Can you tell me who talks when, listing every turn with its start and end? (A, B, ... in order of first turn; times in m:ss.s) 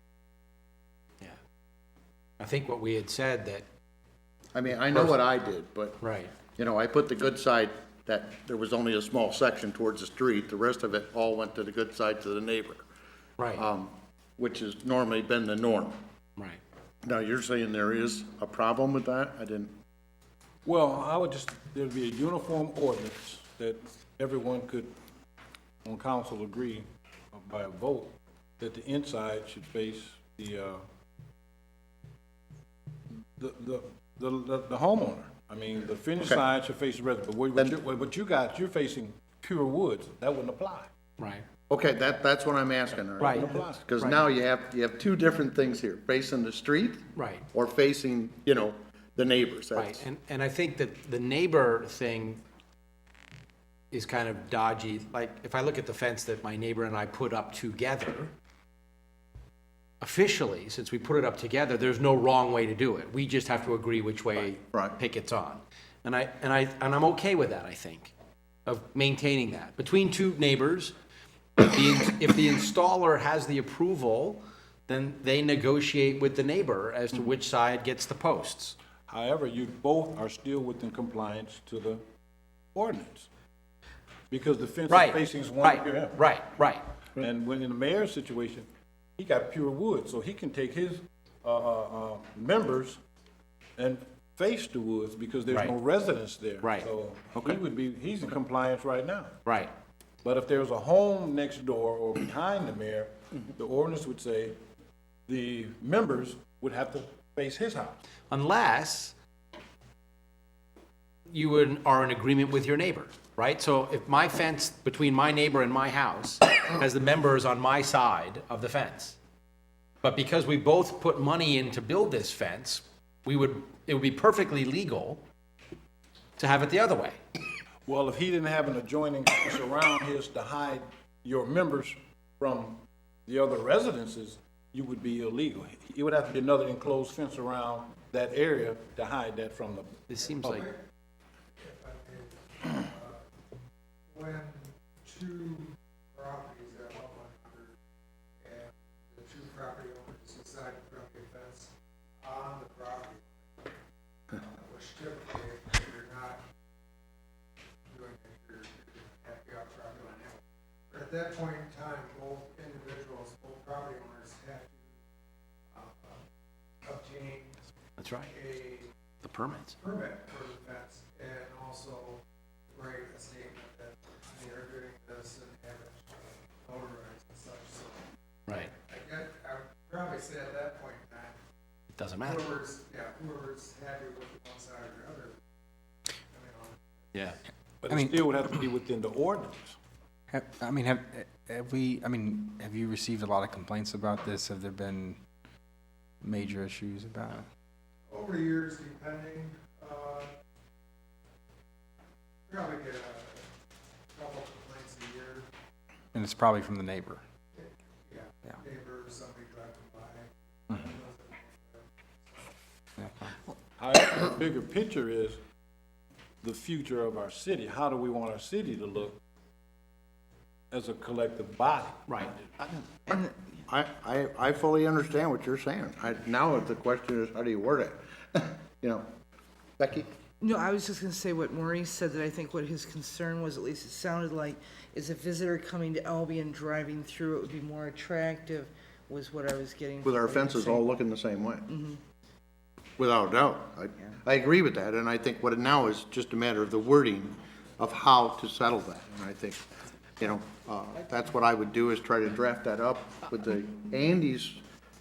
0:02.4-0:03.7 A
0:04.6-0:06.0 B
0:04.9-0:05.2 A
0:06.0-0:06.3 A
0:06.6-0:12.8 B
0:13.4-0:13.7 A
0:13.5-0:16.0 B
0:17.0-0:19.7 B
0:20.6-0:24.9 C
0:25.8-0:30.8 C
0:33.4-0:40.9 C
0:41.2-0:41.4 A
0:41.7-0:50.0 B
0:43.2-0:43.9 C
0:43.2-0:44.2 A
0:47.2-0:47.5 A
0:49.8-0:52.4 A
0:53.9-0:58.3 A
1:00.0-1:08.1 A
1:08.7-1:11.0 A
1:11.6-1:18.8 A
1:19.1-1:22.0 C
1:22.7-1:23.3 C
1:24.3-1:26.2 C
1:24.9-1:26.8 A
1:27.2-1:28.7 C
1:29.2-1:33.0 C
1:33.8-1:39.4 C
1:35.5-1:35.8 A
1:36.6-1:36.9 A
1:39.4-1:39.7 A
1:40.2-1:44.6 C
1:45.3-1:48.0 C
1:48.3-1:49.2 A
1:51.3-1:59.2 A
2:00.0-2:05.2 A
2:06.4-2:07.2 A
2:07.9-2:20.6 C
2:20.1-2:20.7 A
2:21.6-2:23.2 D
2:24.1-2:27.7 D
2:28.4-2:33.4 D
2:34.4-2:36.4 D
2:37.9-2:44.9 D
2:45.7-2:46.2 D
2:46.8-2:47.6 D
2:48.0-2:48.4 A
2:48.4-2:48.9 D
2:49.2-2:49.8 A
2:49.8-2:52.2 D
2:52.7-2:58.0 D
2:58.5-2:58.7 A
2:58.8-3:01.4 D
3:01.9-3:02.6 A
3:02.3-3:05.4 D
3:06.3-3:06.9 D
3:07.1-3:07.4 A
3:07.8-3:09.8 C
3:07.9-3:08.3 E
3:10.3-3:15.2 E
3:16.2-3:17.4 E
3:18.1-3:20.3 D
3:22.5-3:23.5 D
3:24.1-3:25.5 D
3:26.2-3:27.2 E
3:28.1-3:31.8 D
3:33.0-3:33.4 E
3:33.8-3:35.4 C
3:36.4-3:39.2 C
3:40.7-3:42.5 C
3:42.1-3:42.4 A
3:43.1-3:49.1 B
3:49.8-3:50.1 B
3:50.4-4:00.9 F
4:00.0-4:01.7 B
4:01.7-4:02.0 F
4:03.0-4:09.6 B
4:10.2-4:14.6 B